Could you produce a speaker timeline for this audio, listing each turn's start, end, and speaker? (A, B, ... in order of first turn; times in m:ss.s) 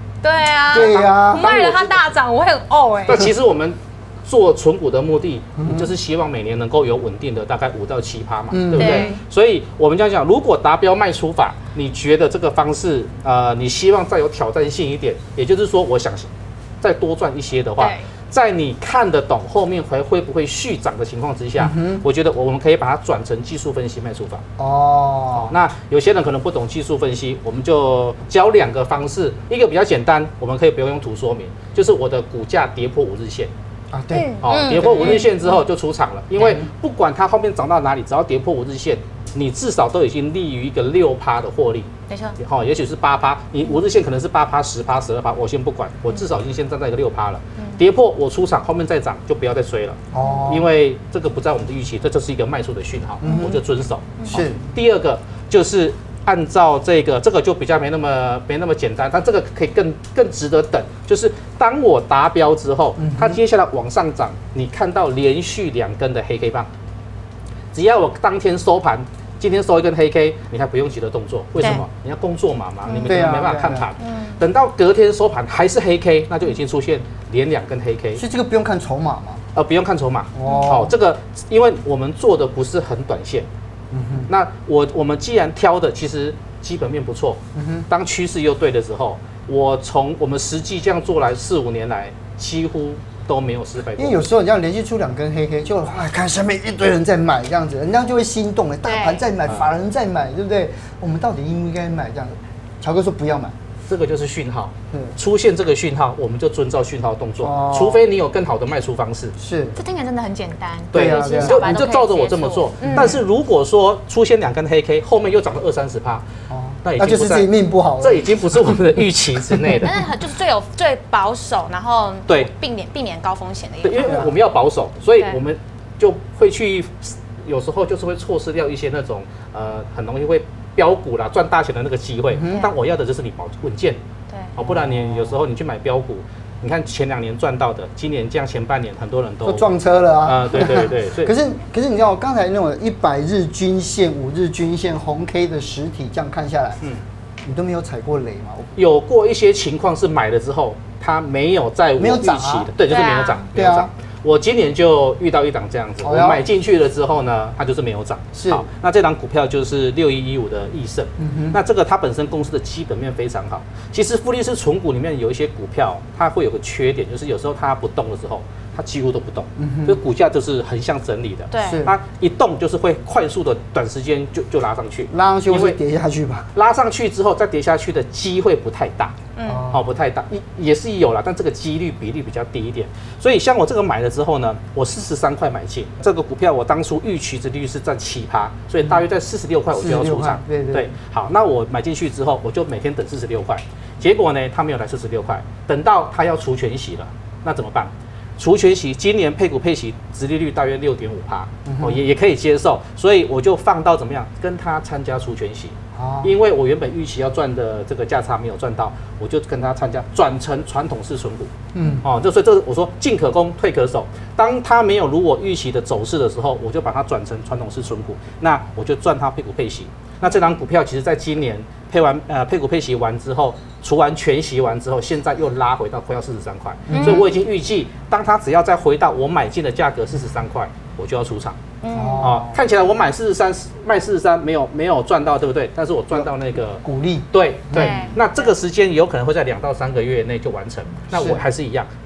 0:00.2-0:03.3 A
0:00.7-0:01.6 B
0:00.7-0:02.1 C
0:03.0-0:24.4 C
0:05.6-0:05.9 B
0:08.5-0:09.2 B
0:08.8-0:09.1 A
0:17.8-0:18.0 A
0:21.6-0:22.0 B
0:24.6-0:25.5 B
0:25.3-0:33.5 C
0:33.9-0:35.3 B
0:34.1-0:35.5 A
0:34.4-1:06.7 C
0:36.4-0:36.6 B
0:42.1-0:42.4 A
0:50.1-0:50.7 B
0:50.2-0:50.4 A
0:53.2-0:53.6 B
0:53.2-0:53.5 A
0:54.2-0:54.4 A
0:54.2-0:54.6 B
1:03.0-1:03.4 B
1:07.7-1:18.2 C
1:12.8-1:13.3 A
1:13.0-1:13.8 B
1:14.0-1:14.4 A
1:18.2-1:19.4 B
1:19.5-1:23.5 C
1:20.3-1:20.9 B
1:20.4-1:20.8 A
1:23.9-1:24.3 B
1:24.3-1:34.2 C
1:27.5-1:27.9 B
1:34.0-1:43.5 B
1:38.8-1:39.2 A
1:43.9-1:49.3 C
1:47.4-1:48.0 B
1:49.4-1:49.8 B
1:49.8-1:53.2 A
1:50.9-1:56.2 C
1:50.9-1:51.7 B
1:52.8-1:53.2 B
1:56.5-1:59.9 B
1:56.8-1:59.9 C
1:59.8-2:04.2 A
2:03.8-2:14.0 C
2:04.0-2:04.3 B
2:12.3-2:12.6 B
2:14.5-2:19.7 C
2:14.6-2:15.3 B
2:19.4-2:26.8 B
2:20.2-2:21.3 C
2:27.4-2:28.7 B
2:28.8-2:55.8 C
2:32.0-2:32.7 B
2:32.8-2:33.4 A
2:33.5-2:33.9 B
2:36.0-2:36.4 B
2:38.4-2:38.6 B
2:41.2-2:41.6 B
2:49.6-2:50.0 B
2:51.5-2:51.9 A
2:51.6-2:51.9 B
2:55.1-2:56.5 B
2:56.5-2:59.2 C
2:59.4-2:59.7 A
2:59.4-2:59.8 B
2:59.7-3:51.6 C
3:09.8-3:10.9 B
3:21.6-3:22.0 B
3:25.9-3:26.3 B
3:31.7-3:32.0 B
3:46.9-3:47.2 B
3:46.9-3:47.3 A
3:51.8-3:52.3 A
3:51.9-3:52.6 B
3:52.2-4:01.9 C
3:56.8-3:58.1 B
3:57.7-3:58.5 A
4:01.1-4:01.4 B